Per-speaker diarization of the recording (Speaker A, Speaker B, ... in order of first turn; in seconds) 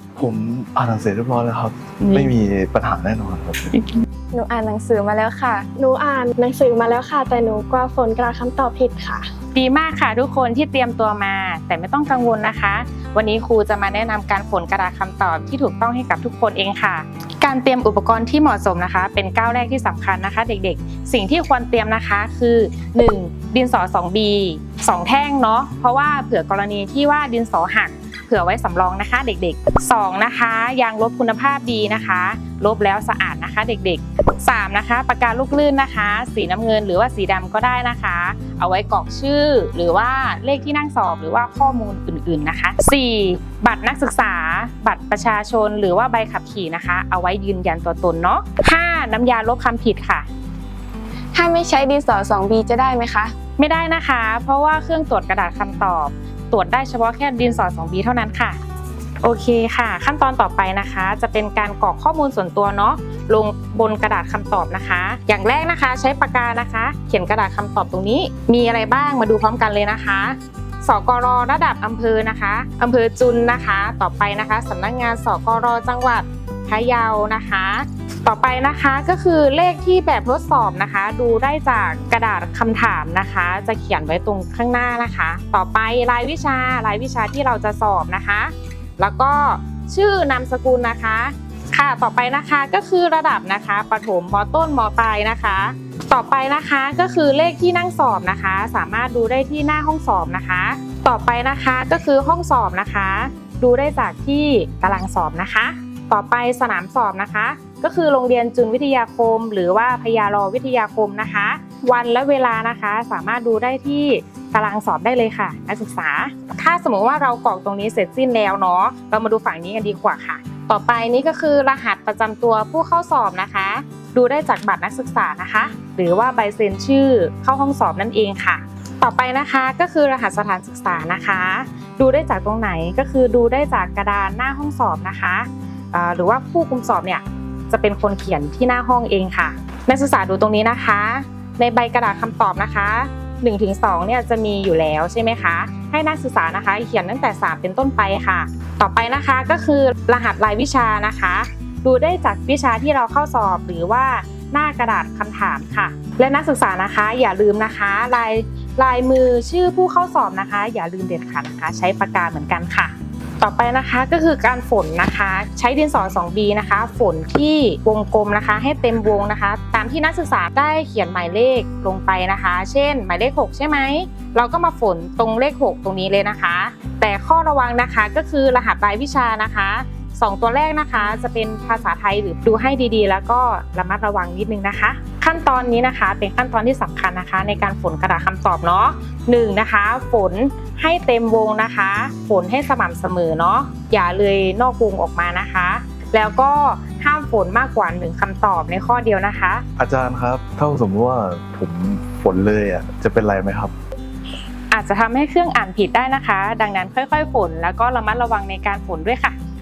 Speaker A: 0.1-3.8, 199.8-203.7
Speaker B: 4.3-5.7, 51.3-53.3
Speaker C: 5.7-9.2
Speaker D: 9.5-50.3, 53.6-58.6, 59.2-199.6, 204.7-209.3